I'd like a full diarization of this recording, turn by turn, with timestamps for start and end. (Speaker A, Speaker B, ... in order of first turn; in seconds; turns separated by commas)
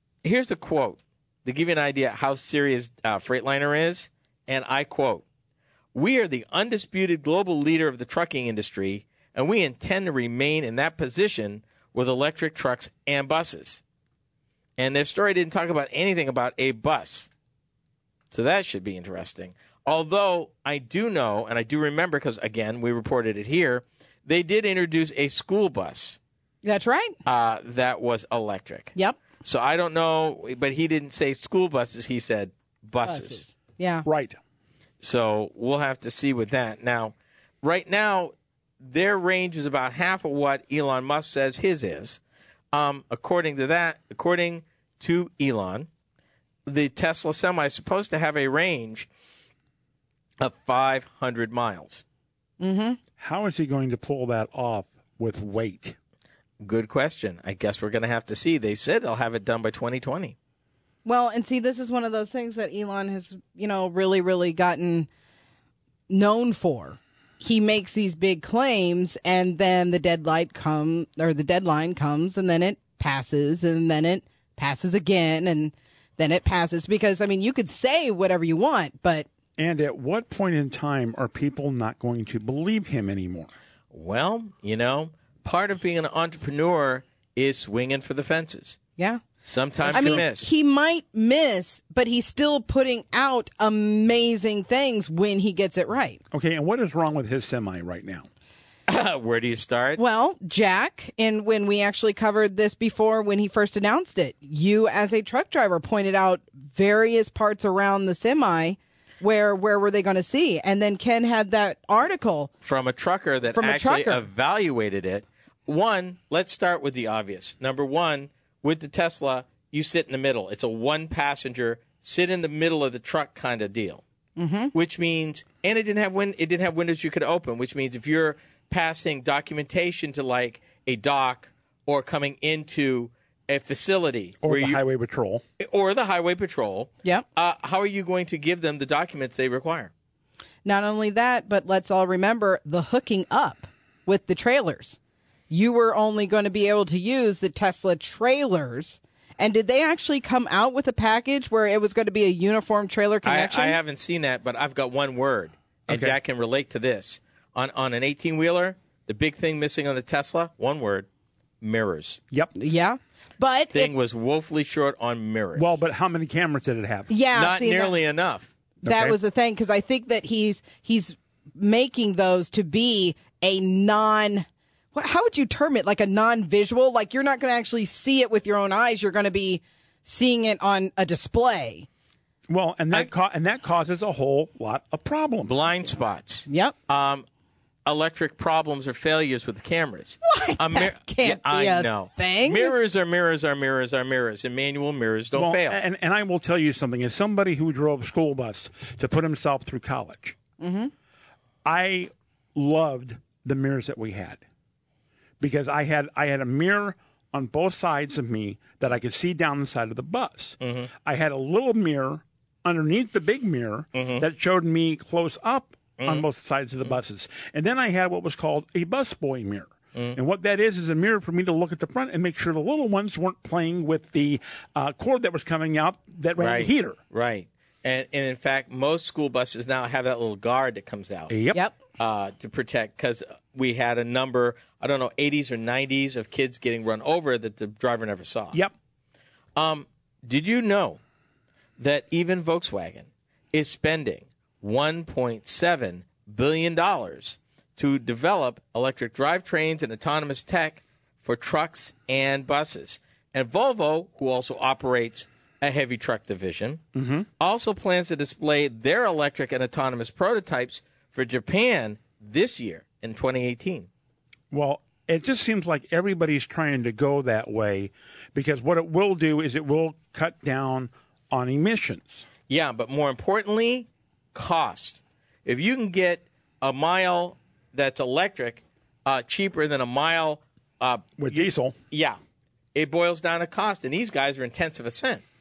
Speaker A: 0.2-5.2, Speaker A: 5.9-13.8, Speaker A: 14.8-17.3, Speaker A: 18.3-26.2, Speaker B: 26.6-27.2, Speaker A: 27.3-33.5, Speaker B: 33.0-34.1, Speaker C: 34.0-34.4, Speaker A: 35.0-42.2, Speaker A: 42.7-45.9, Speaker A: 46.7-49.1, Speaker A: 50.4-52.0, Speaker B: 52.6-53.0, Speaker C: 53.2-56.0, Speaker A: 56.6-60.4, Speaker B: 61.0-65.1, Speaker B: 66.1-79.3, Speaker C: 79.6-83.5, Speaker A: 83.9-88.8, Speaker A: 89.4-90.5, Speaker C: 89.8-90.2, Speaker B: 89.9-96.2, Speaker C: 96.3-98.3, Speaker A: 98.9-100.0, Speaker B: 100.0-112.5, Speaker A: 112.6-124.0, Speaker B: 113.5-114.2, Speaker B: 124.4-124.7, Speaker A: 124.7-134.8, Speaker C: 134.4-135.4, Speaker A: 135.6-139.9, Speaker B: 140.7-145.0, Speaker B: 145.5-153.8, Speaker A: 153.2-161.1, Speaker C: 155.9-156.2, Speaker A: 161.6-162.2, Speaker B: 162.6-163.9, Speaker A: 163.7-165.7, Speaker C: 165.6-167.1, Speaker B: 167.1-168.0, Speaker A: 167.3-168.5, Speaker C: 168.8-169.2, Speaker B: 168.8-181.9, Speaker C: 182.5-185.5, Speaker A: 185.5-187.2, Speaker B: 186.5-186.8, Speaker A: 187.9-195.8, Speaker B: 190.2-192.8, Speaker C: 195.3-200.4, Speaker B: 200.6-200.9, Speaker C: 201.7-204.4, Speaker C: 205.4-227.0, Speaker A: 210.6-210.9, Speaker A: 213.9-214.3, Speaker A: 216.0-216.2, Speaker A: 226.4-231.3, Speaker C: 231.3-231.6, Speaker A: 232.0-238.6, Speaker A: 239.6-241.0, Speaker A: 241.8-256.8, Speaker C: 257.0-257.3, Speaker A: 257.4-263.9, Speaker C: 264.5-272.3, Speaker A: 272.5-282.2, Speaker C: 281.2-281.8, Speaker A: 282.7-285.2